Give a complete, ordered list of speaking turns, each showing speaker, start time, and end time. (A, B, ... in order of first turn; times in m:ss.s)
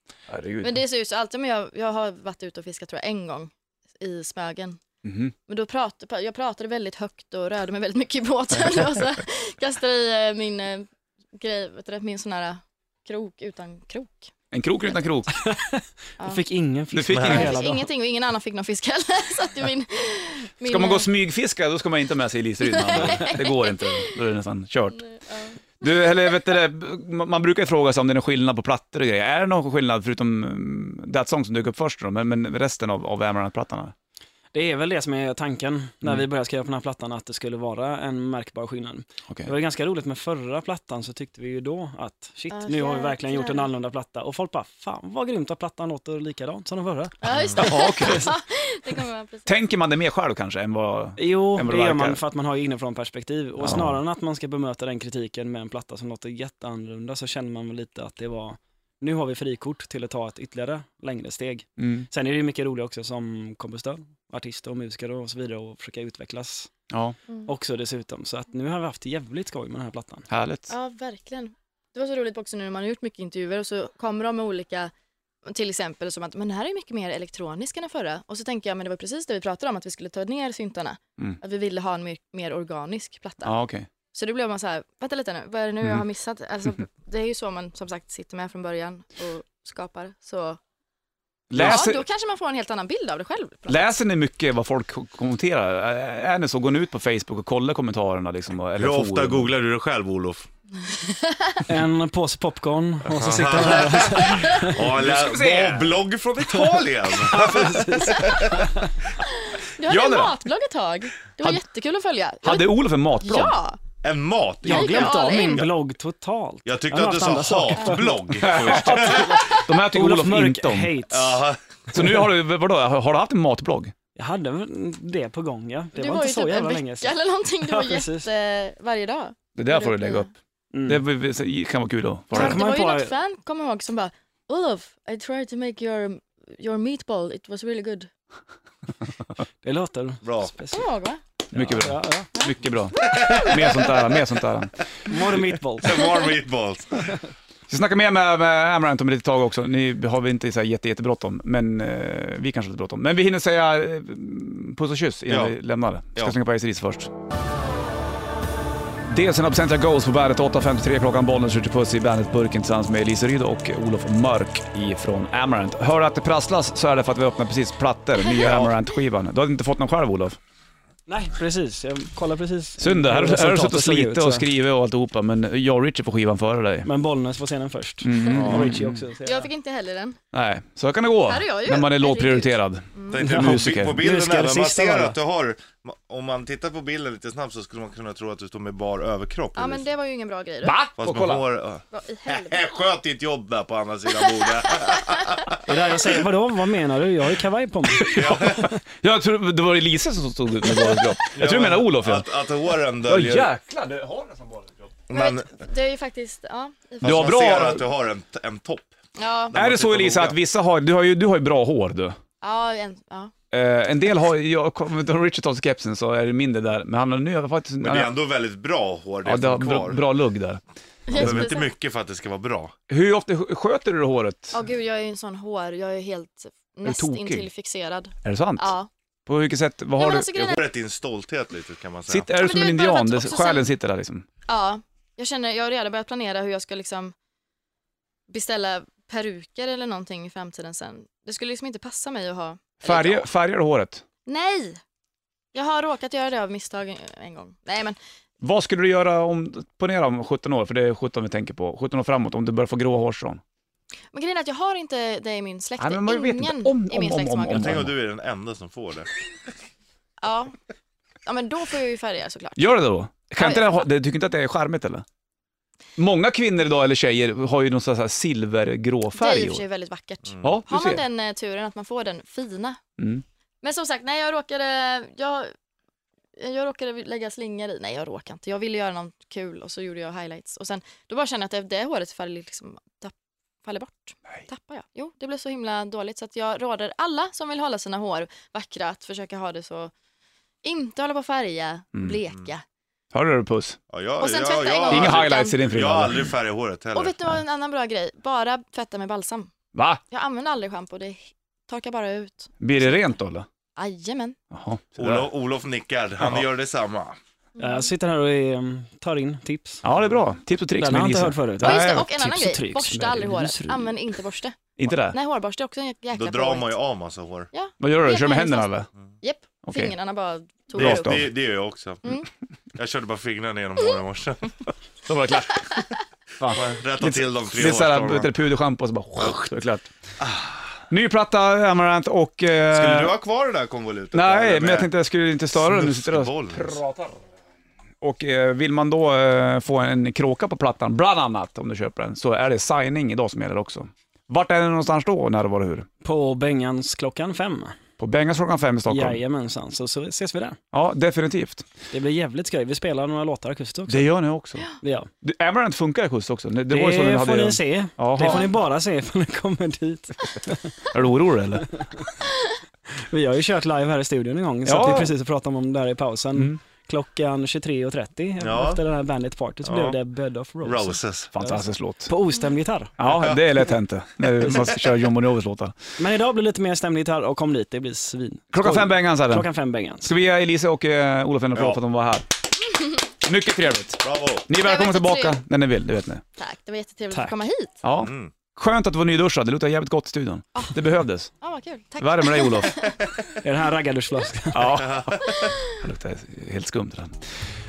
0:00.3-0:00.8 A
0:00.6-0:04.8 B
0:05.0-0:05.3 A
0:05.5-0:14.3 B
0:14.5-0:15.4 A
0:15.3-0:17.9 C
0:16.2-0:16.4 B
0:16.9-0:17.6 A
0:17.2-0:21.1 B
0:20.7-0:25.0 A
0:22.6-0:24.2 B
0:25.0-0:25.6 B
0:25.8-0:33.9 A
0:34.5-0:48.3 C
0:42.5-0:43.7 B
0:47.2-0:49.5 B
0:47.3-0:47.6 D
0:47.6-0:48.2 A
0:49.5-0:52.2 A
0:51.2-1:06.7 C
0:53.6-0:54.0 A
1:01.8-1:02.1 A
1:06.9-1:07.2 A
1:07.5-1:10.3 C
1:10.3-1:10.7 A
1:10.7-1:14.9 B
1:15.5-1:23.5 B
1:23.4-1:23.9 A
1:24.1-1:30.6 B
1:31.5-1:32.0 A
1:31.5-1:33.9 B
1:33.7-1:39.5 A
1:38.8-1:40.5 D
1:40.9-1:41.6 B
1:41.7-1:44.8 C
1:43.1-1:48.8 D
1:44.8-1:45.9 A
1:46.5-1:48.9 C
1:49.3-1:53.8 B
1:49.8-1:50.4 A
1:52.4-1:53.6 A
1:54.0-1:55.3 D
1:54.6-2:01.5 C
1:54.7-1:55.7 B
1:56.6-1:59.4 D
1:58.4-2:01.0 A
2:01.1-2:01.6 D
2:01.9-2:03.9 A
2:04.2-2:08.3 C
2:06.0-2:10.3 B
2:09.6-2:10.3 A
2:10.7-2:11.0 C
2:10.9-2:12.6 A
2:12.3-2:13.1 C
2:12.3-2:18.1 B
2:19.6-2:20.9 C
2:20.2-2:20.5 D
2:20.7-2:21.2 B
2:21.5-2:22.3 C
2:21.5-2:25.1 A
2:23.0-2:23.9 D
2:25.1-2:26.1 C
2:25.8-2:27.2 D
2:27.7-2:37.1 A
2:35.3-2:35.6 D
2:39.1-2:50.4 A
2:48.4-2:48.7 D
2:51.1-2:54.5 C
2:52.8-2:56.9 A
2:56.8-2:59.5 C
2:58.0-2:59.0 A
2:58.3-2:58.6 B
2:58.4-2:58.7 D
2:59.2-3:00.2 B
3:00.3-3:04.0 A
3:01.3-3:03.3 B
3:03.1-3:09.8 D
3:03.2-3:05.2 C
3:09.6-3:10.8 B
3:10.6-3:11.4 A
3:11.0-3:15.6 D
3:11.9-3:12.6 B
3:15.7-3:18.8 C
3:18.0-3:18.7 D
3:18.3-3:22.3 A
3:21.3-3:23.5 D
3:23.0-3:24.9 A
3:25.1-3:25.5 D
3:25.1-3:27.2 B
3:27.0-3:28.9 D
3:27.0-3:27.9 A
3:29.2-3:29.5 B
3:29.5-3:30.4 D
3:29.5-3:32.2 A
3:32.4-3:33.3 B
3:33.5-3:38.2 A
3:37.8-3:40.0 D
3:39.2-3:41.4 A
3:41.1-3:41.7 B
3:41.1-3:42.7 D
3:42.9-3:44.6 A
3:44.5-3:48.9 B
3:46.8-3:47.5 A
3:48.2-3:48.7 A
3:49.3-3:50.3 A
3:50.0-3:50.6 B
3:50.3-3:52.3 D
3:52.1-3:54.3 A
3:52.4-3:53.7 B
3:54.5-3:57.2 B
3:58.3-4:03.3 B
4:02.8-4:04.0 A
4:04.3-4:04.8 B
4:05.5-4:08.0 B
4:08.4-4:13.4 A
4:14.1-4:17.8 B
4:15.8-4:17.9 A
4:17.5-4:19.1 D
4:20.2-4:20.6 B
4:21.2-4:22.7 B
4:22.6-4:25.0 A
4:23.4-4:23.8 B
4:26.0-4:29.6 A
4:29.2-4:32.8 B
4:30.4-4:31.0 A
4:33.0-4:33.2 A
4:33.6-4:35.5 B
4:36.4-4:43.1 B
4:43.6-4:49.9 B
4:50.6-4:52.6 B
4:53.1-4:53.8 A
4:53.9-4:57.2 D
4:54.2-4:55.6 B
4:54.9-4:56.3 A
4:56.9-4:59.5 B
4:59.8-5:00.0 A
5:00.1-5:03.2 B
5:02.6-5:03.5 A
5:03.8-5:04.4 B
5:04.5-5:05.3 A
5:05.0-5:07.2 D
5:07.6-5:07.9 B
5:07.6-5:09.8 C
5:09.8-5:12.1 A
5:10.8-5:14.1 C
5:11.6-5:14.6 B
5:14.8-5:15.2 A
5:15.1-5:16.8 B
5:16.1-5:17.5 D
5:17.5-5:21.3 B
5:17.8-5:18.9 A
5:19.7-5:20.0 A
5:20.8-5:21.2 A
5:20.8-5:22.2 D
5:22.8-5:24.5 D
5:25.0-5:25.8 A
5:26.4-5:29.9 A
5:26.5-5:28.3 D
5:30.2-5:30.6 D
5:30.9-5:33.1 A
5:32.7-5:34.9 D
5:34.1-5:37.2 A
5:35.5-5:36.8 D
5:38.0-5:45.9 A
5:46.0-5:47.8 C
5:48.0-5:49.2 A
5:48.9-5:50.6 C
5:50.7-5:51.6 A
5:51.9-5:54.1 C
5:53.9-5:54.7 A
5:54.8-5:55.1 C
5:55.2-5:58.5 A
5:56.7-6:00.8 C
5:58.2-5:58.5 B
6:00.9-6:01.7 A
6:01.8-6:02.0 C
6:02.9-6:13.0 C
6:04.6-6:05.1 A
6:08.4-6:08.8 D
6:09.6-6:10.0 D
6:10.6-6:11.3 D
6:11.4-6:12.1 A
6:13.0-6:15.8 A
6:16.0-6:20.1 C
6:18.5-6:19.5 A
6:20.0-6:22.3 A
6:21.5-6:21.8 D
6:23.2-6:26.2 A
6:24.0-6:24.5 D
6:24.6-6:25.4 B
6:26.4-6:27.8 B
6:27.8-6:31.3 A
6:28.0-6:28.3 D
6:31.4-6:33.0 B
6:32.0-6:32.8 A
6:33.4-6:34.8 C
6:34.5-6:37.2 A
6:34.8-6:35.5 D
6:35.2-6:35.6 B